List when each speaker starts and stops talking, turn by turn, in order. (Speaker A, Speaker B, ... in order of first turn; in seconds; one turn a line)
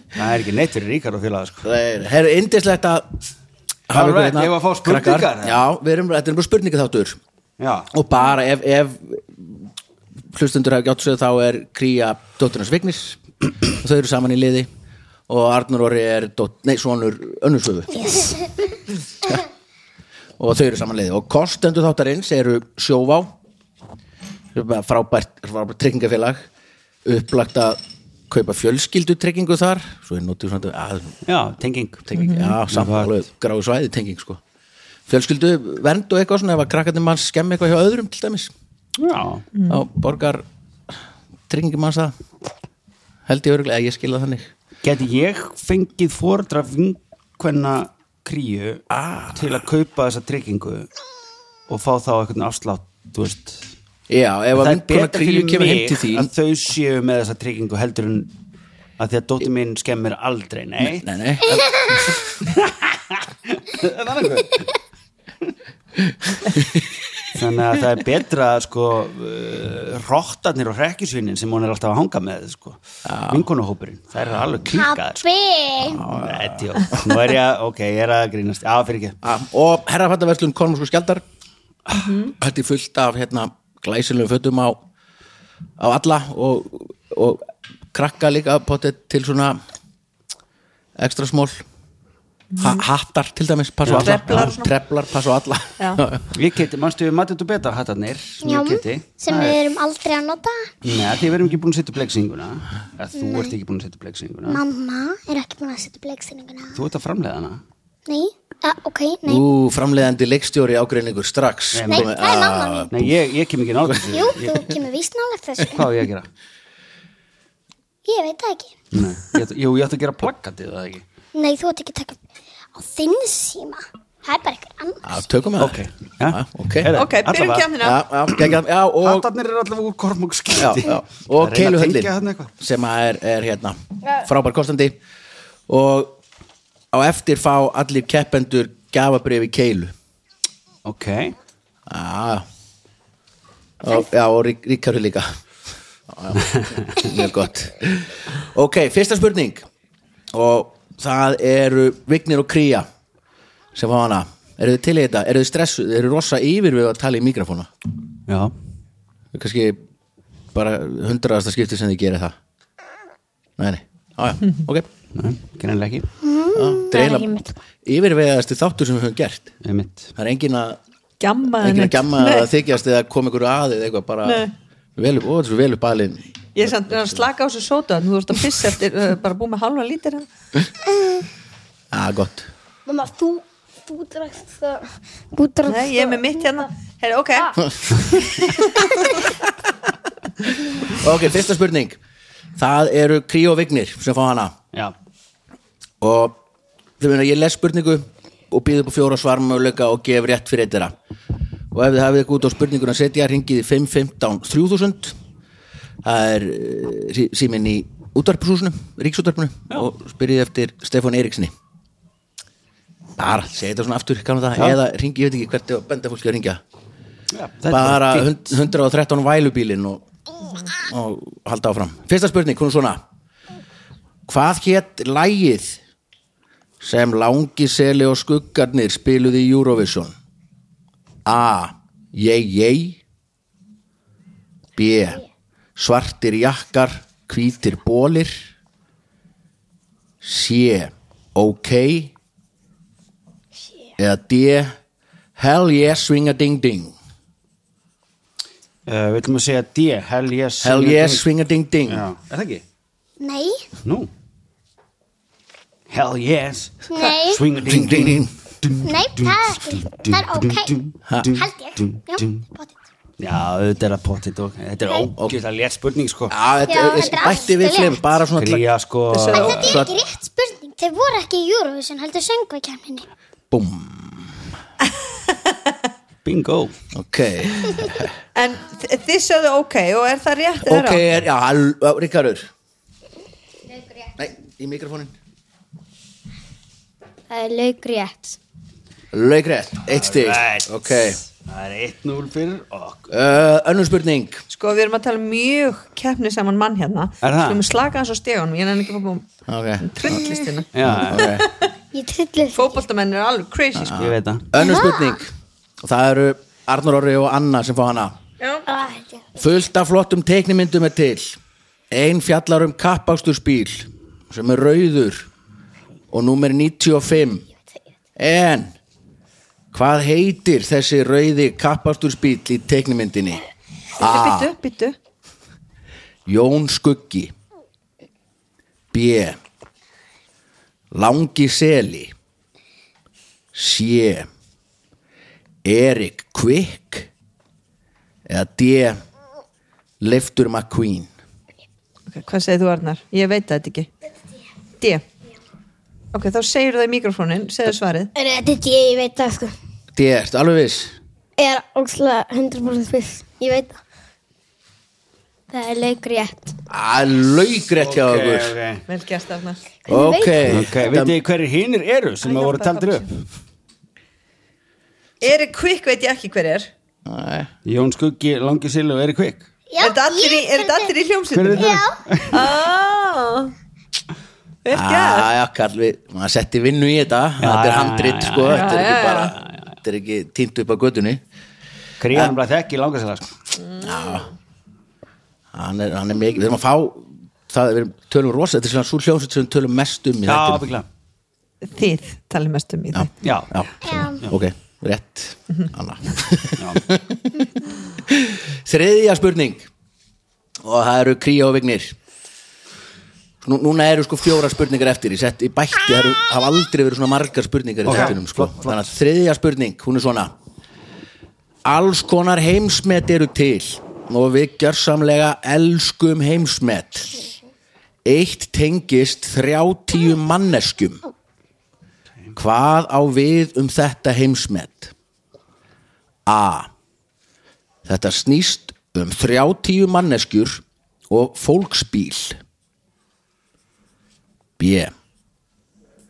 Speaker A: 0.1-1.7
Speaker B: 1.6-3.2
Speaker B: 3.9-7.2
Speaker A: 3.9-5.6
Speaker A: 7.6-7.9
Speaker B: 7.9-9.7
Speaker B: 10.3-13.2
Speaker B: 13.8-14.7
Speaker B: 15.3-18.1
Speaker C: 18.0-18.4
Speaker B: 20.4-23.3
Speaker B: 24.5-26.5
Speaker B: 27.0-27.8
Speaker B: 28.3-31.2
Speaker A: 31.2-32.1
Speaker B: 32.1-34.4
Speaker D: 32.1-32.6
Speaker A: 32.7-33.2
Speaker B: 35.1-38.5
Speaker A: 39.0-39.4
Speaker D: 39.5-39.8
Speaker B: 39.7-40.9
Speaker B: 41.5-42.1
Speaker B: 43.3-44.5
Speaker A: 44.8-50.9
Speaker B: 48.9-49.4
Speaker A: 51.7-53.7
Speaker B: 54.1-56.3
Speaker A: 54.5-58.3
Speaker A: 59.0-61.1
Speaker B: 60.8-61.7
Speaker A: 62.2-64.7
Speaker B: 66.4-66.8
Speaker A: 67.3-75.3
Speaker B: 73.0-73.5
Speaker C: 74.7-75.8
Speaker E: 75.8-76.0
Speaker B: 75.9-77.0
Speaker A: 76.1-79.2
Speaker B: 79.2-81.2
Speaker D: 81.9-82.3
Speaker B: 82.3-84.8
Speaker B: 85.8-89.6
Speaker B: 91.0-91.6
Speaker D: 92.5-92.8
Speaker B: 92.6-96.3
Speaker A: 93.8-94.5
Speaker D: 94.0-94.7
Speaker A: 96.3-99.6
Speaker C: 98.4-100.7
Speaker A: 100.8-104.6
Speaker C: 103.2-103.5
Speaker C: 104.5-106.8
Speaker A: 106.7-107.6
Speaker C: 108.1-109.5
Speaker B: 109.2-113.1
Speaker A: 111.7-112.1
Speaker C: 111.8-112.9
Speaker A: 112.9-114.7
Speaker C: 114.1-115.9
Speaker A: 115.7-116.3
Speaker C: 118.0-118.8
Speaker A: 118.9-121.0
Speaker C: 121.3-122.2
Speaker C: 122.7-125.1
Speaker B: 125.0-127.0
Speaker A: 125.6-127.7
Speaker D: 126.9-128.0
Speaker B: 127.8-129.3
Speaker A: 129.0-132.5
Speaker B: 130.5-135.0
Speaker B: 135.7-136.2
Speaker B: 136.9-139.9
Speaker A: 140.8-141.3
Speaker B: 141.9-142.4
Speaker B: 143.8-145.3
Speaker B: 146.1-149.6
Speaker A: 146.3-146.8
Speaker B: 150.3-152.9
Speaker B: 153.7-157.7
Speaker A: 158.3-158.5
Speaker B: 159.3-159.8
Speaker B: 160.5-162.4
Speaker B: 163.6-164.9
Speaker A: 165.1-166.1
Speaker E: 166.2-167.6
Speaker B: 166.5-167.0
Speaker B: 167.8-169.5
Speaker A: 169.6-170.1
Speaker B: 170.2-170.8
Speaker D: 171.2-172.5
Speaker B: 171.6-177.2
Speaker D: 174.2-174.5
Speaker D: 176.6-180.3
Speaker B: 181.9-182.5
Speaker E: 182.9-186.4
Speaker D: 185.7-188.9
Speaker B: 190.9-192.0
Speaker B: 192.6-194.5
Speaker B: 196.0-196.4
Speaker B: 197.0-200.9
Speaker B: 201.7-205.2
Speaker B: 206.0-211.5
Speaker B: 213.2-216.6
Speaker A: 217.3-218.6
Speaker B: 217.7-220.0
Speaker B: 220.7-223.0
Speaker B: 224.3-225.8
Speaker B: 226.8-230.1
Speaker B: 231.2-233.0
Speaker B: 234.8-235.2
Speaker B: 235.8-238.4
Speaker B: 240.2-242.1
Speaker B: 244.0-244.8
Speaker B: 245.4-246.9
Speaker A: 248.8-251.2
Speaker B: 250.6-252.1
Speaker A: 251.9-252.6
Speaker C: 253.2-253.6
Speaker A: 253.8-254.1
Speaker A: 255.9-262.4
Speaker C: 256.9-257.4
Speaker B: 257.6-258.3
Speaker C: 258.8-262.7
Speaker B: 261.1-261.4
Speaker A: 263.2-266.4
Speaker B: 266.3-268.6
Speaker C: 266.6-268.1
Speaker A: 268.4-269.8
Speaker D: 269.1-269.8
Speaker C: 269.3-273.1
Speaker B: 269.6-269.9
Speaker B: 273.5-274.3
Speaker A: 276.2-276.7
Speaker B: 276.9-278.1
Speaker D: 278.3-281.0
Speaker B: 280.6-282.5
Speaker B: 284.2-285.1
Speaker E: 287.3-288.4
Speaker B: 289.1-291.2
Speaker A: 289.9-293.1
Speaker B: 293.1-294.4
Speaker D: 294.5-299.3
Speaker A: 297.2-297.6
Speaker B: 299.5-300.3
Speaker D: 299.8-301.7
Speaker A: 300.7-301.3
Speaker B: 300.8-301.5
Speaker E: 301.9-302.8
Speaker D: 302.5-304.1
Speaker B: 303.8-305.3
Speaker A: 303.9-304.5
Speaker C: 304.6-305.2
Speaker B: 305.8-308.2
Speaker E: 308.8-309.2
Speaker B: 309.4-311.4
Speaker B: 311.9-315.3
Speaker B: 316.1-317.4
Speaker B: 318.2-318.7
Speaker B: 319.7-323.4
Speaker B: 324.0-324.5
Speaker D: 324.0-325.0
Speaker B: 326.2-327.3
Speaker B: 328.9-329.4
Speaker B: 330.9-332.1
Speaker B: 333.5-334.3
Speaker B: 335.6-337.1
Speaker B: 338.3-339.0
Speaker B: 340.0-341.1
Speaker D: 342.1-343.9
Speaker D: 346.1-348.1
Speaker E: 348.1-349.5
Speaker B: 349.9-350.9
Speaker E: 351.4-353.8
Speaker E: 355.5-356.5
Speaker B: 356.7-358.5
Speaker A: 357.8-358.9
Speaker D: 358.9-359.6
Speaker E: 359.9-360.5
Speaker B: 359.9-361.1
Speaker A: 360.5-363.2
Speaker D: 362.2-363.1
Speaker D: 365.2-366.7
Speaker B: 367.0-367.5
Speaker A: 367.6-369.4
Speaker C: 369.7-370.9
Speaker D: 369.8-373.5
Speaker A: 371.3-372.5
Speaker C: 371.5-372.0
Speaker D: 374.6-375.3
Speaker B: 374.7-381.2
Speaker A: 377.4-379.7
Speaker D: 378.5-379.3
Speaker A: 382.0-383.3
Speaker D: 383.6-384.1
Speaker B: 383.8-384.3
Speaker B: 385.5-390.6
Speaker A: 390.2-390.9
Speaker D: 391.6-393.1
Speaker B: 392.9-397.5
Speaker A: 393.2-393.5
Speaker C: 393.8-394.2
Speaker A: 394.1-394.3
Speaker A: 396.6-396.9
Speaker B: 398.1-399.7
Speaker B: 400.6-401.9
Speaker B: 403.4-410.3
Speaker A: 407.8-408.9
Speaker B: 411.6-417.3
Speaker B: 418.0-421.0
Speaker B: 422.3-424.9
Speaker B: 426.2-426.7
Speaker B: 427.8-432.4
Speaker B: 434.6-434.9